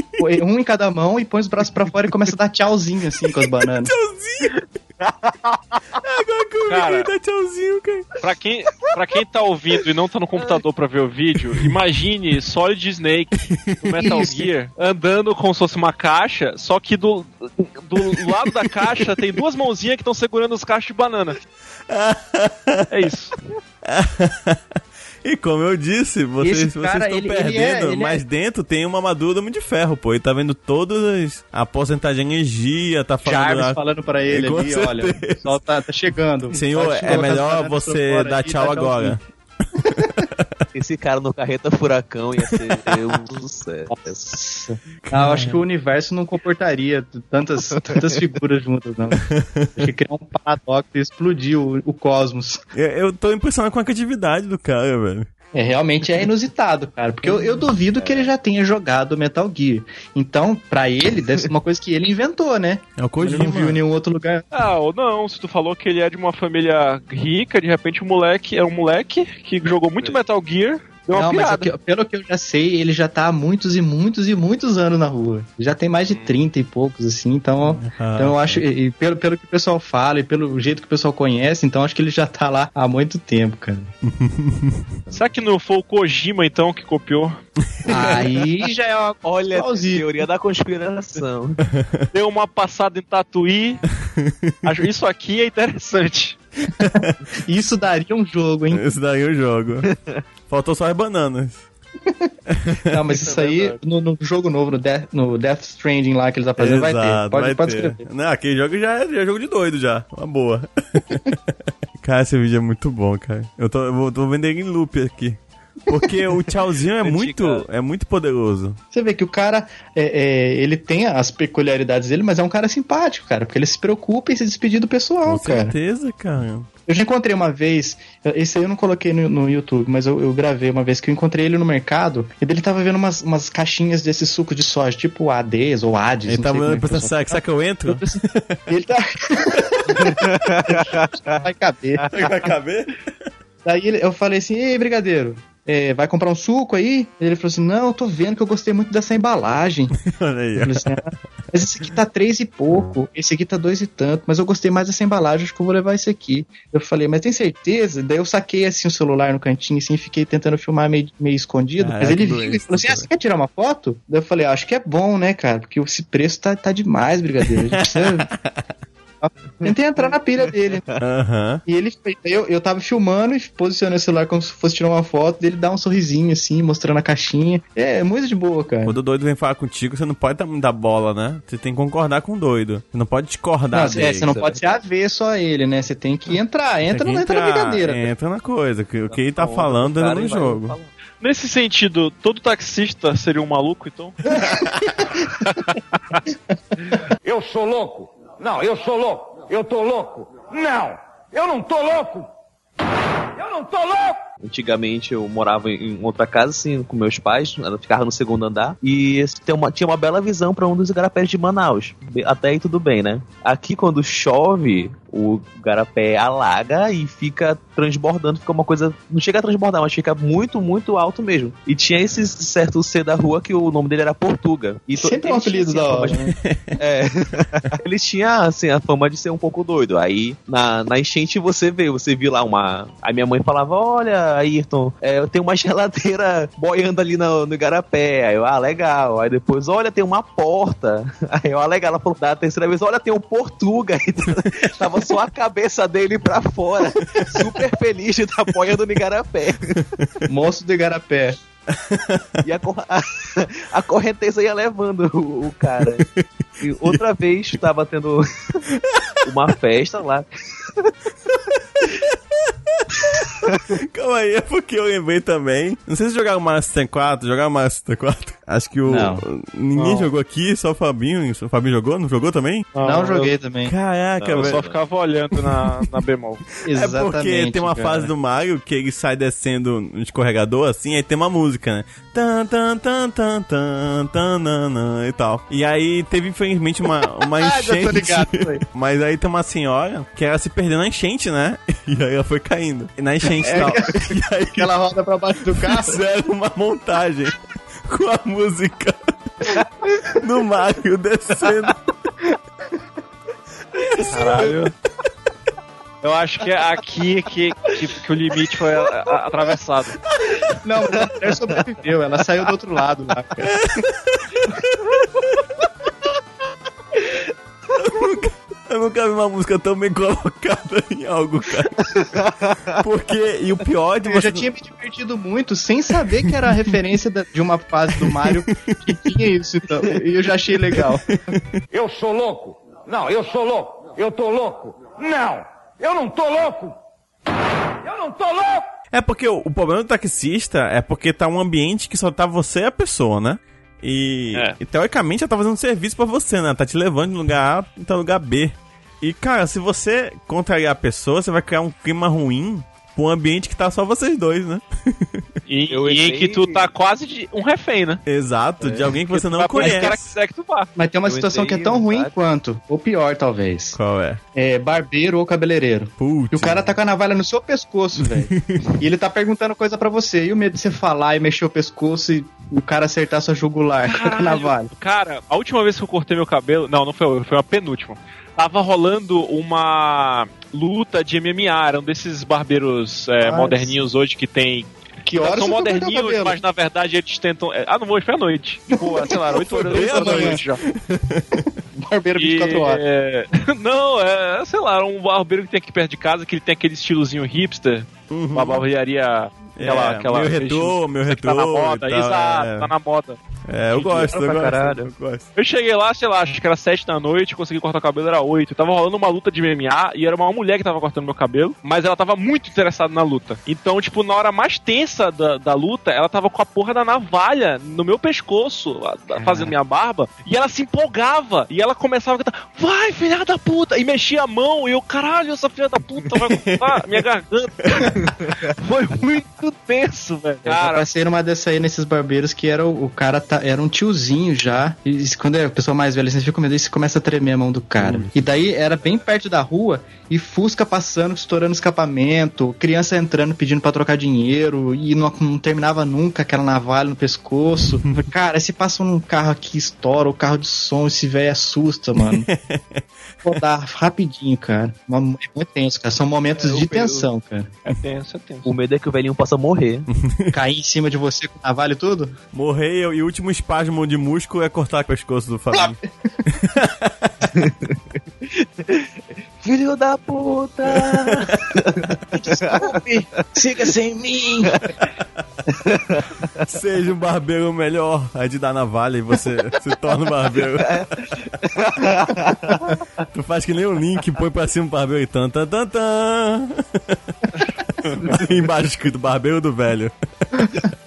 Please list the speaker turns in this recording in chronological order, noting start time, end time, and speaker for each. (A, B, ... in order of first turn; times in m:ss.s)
0:00.2-0:03.9 A
0:03.2-0:04.6 B
0:05.0-0:05.6 C
0:06.0-0:08.1 B
0:06.7-0:07.1 D
0:08.2-0:21.4 D
0:11.4-0:11.8 B
0:13.4-0:14.2 B
0:14.0-0:14.4 A
0:18.0-0:19.1 B
0:21.9-0:22.9 B
0:22.9-0:23.4 D
0:23.8-0:24.6 B
0:25.2-0:35.5 B
0:26.4-0:28.2 A
0:33.2-0:39.2 A
0:36.5-0:39.2 B
0:39.8-0:40.7 B
0:39.9-0:40.1 A
0:40.8-0:44.2 C
0:42.4-0:43.2 B
0:43.9-0:52.6 A
0:45.0-0:45.6 B
0:49.3-0:49.7 B
0:52.7-0:55.3 B
0:55.5-1:04.5 A
0:57.9-0:58.3 C
1:03.0-1:03.8 B
1:04.5-1:11.7 D
1:11.1-1:23.9 A
1:17.8-1:18.6 B
1:24.0-1:24.9 B
1:25.1-1:27.4 D
1:27.7-1:28.2 B
1:27.9-1:30.3 A
1:27.9-1:28.3 C
1:29.2-1:31.6 C
1:31.7-1:32.1 B
1:32.1-1:33.8 D
1:34.0-1:34.7 B
1:34.6-1:36.4 D
1:36.8-1:37.2 B
1:36.8-1:38.8 A
1:38.7-1:39.9 B
1:39.9-1:40.2 C
1:40.5-1:41.7 B
1:42.5-1:43.2 B
1:42.9-1:48.0 A
1:43.3-1:43.8 D
1:46.6-1:58.8 B
1:57.0-1:57.6 D
1:58.9-2:05.7 A
2:05.2-2:06.7 B
2:06.9-2:22.1 A
2:16.3-2:18.6 B
2:20.0-2:21.4 C
2:22.0-2:22.3 C
2:22.1-2:23.0 B
2:23.6-2:29.9 A
2:30.0-2:30.9 B
2:30.6-2:48.3 A
2:41.8-2:43.1 B
2:47.4-2:48.5 B
2:49.2-2:50.8 A
2:49.6-2:50.2 C
2:50.7-2:51.0 C
2:51.0-2:51.6 B
2:51.7-2:59.0 A
2:58.8-3:04.5 B
3:03.7-3:08.1 A
3:03.9-3:04.6 C
3:06.9-3:10.8 B
3:09.2-3:10.9 C
3:11.2-3:14.2 D
3:14.4-3:15.4 A
3:14.5-3:14.8 B
3:16.9-3:17.2 A
3:17.2-3:22.3 E
3:23.4-3:24.2 E
3:24.4-3:46.2 C
3:45.0-3:46.3 A
3:46.2-3:46.8 B
3:46.8-4:09.8 C
4:07.0-4:07.5 B
4:10.3-4:11.4 A
4:11.7-4:12.3 B
4:12.4-4:16.0 C
4:15.8-4:16.3 B
4:16.6-4:18.6 C
4:18.7-4:19.0 B
4:19.2-4:20.9 C
4:21.8-4:22.8 B
4:23.1-4:23.7 C
4:23.8-4:32.7 B
4:28.9-4:29.2 A
4:29.8-4:30.1 D
4:32.8-4:33.3 D
4:32.8-4:33.7 A
4:33.6-4:34.6 B
4:34.2-4:34.8 C
4:34.3-4:36.4 D
4:35.3-4:35.9 B
4:36.6-4:38.1 A
4:36.7-4:54.7 B
4:47.4-4:48.6 A
4:53.4-4:56.0 A
4:55.6-4:59.4 B
5:00.2-5:01.8 B
5:03.8-5:04.6 B
5:04.1-5:04.7 D
5:06.0-5:10.0 D
5:10.6-5:13.4 A
5:13.4-5:15.4 B
5:17.8-5:21.7 B
5:22.0-5:22.8 C
5:22.8-5:24.5 B
5:24.0-5:31.0 A
5:26.1-5:26.5 B
5:28.0-5:29.1 B
5:30.7-5:31.6 B
5:31.7-5:36.8 E
5:37.8-5:38.6 E
5:38.9-5:55.3 B
5:55.5-5:58.0 D
5:55.7-5:56.7 C
5:58.1-6:00.2 B
5:59.1-6:00.7 D
5:59.6-5:59.9 C
6:00.8-6:03.8 A
6:01.1-6:02.1 C
6:03.7-6:04.2 B
6:04.4-6:14.7 A
6:06.0-6:06.7 B
6:08.0-6:08.8 B
6:13.9-6:30.6 D
6:23.2-6:23.8 A
6:25.0-6:26.4 A
6:28.7-6:30.4 A
6:29.3-6:31.5 B
6:31.8-6:32.8 A
6:32.2-6:43.2 D
6:38.1-6:38.6 B
6:39.6-6:42.7 B
6:43.5-6:45.3 B
6:43.7-7:10.8 D
6:59.2-6:59.5 A
7:06.3-7:07.0 B
7:07.6-7:07.9 B
7:08.0-7:08.5 C
7:10.5-7:32.3 A
7:17.8-7:18.1 B
7:32.0-7:33.3 B
7:33.2-7:37.5 A
7:36.4-7:37.1 C
7:37.7-7:38.5 D
7:38.4-7:39.9 C
7:39.9-7:40.4 B
7:40.3-7:42.2 A
7:42.3-7:47.1 B
7:45.6-7:45.8 A
7:47.4-7:52.6 C
7:50.7-7:51.4 B
7:52.2-7:54.6 A
7:55.6-7:56.4 C
7:56.5-8:00.9 B
8:00.4-8:02.6 C
8:03.1-8:10.7 B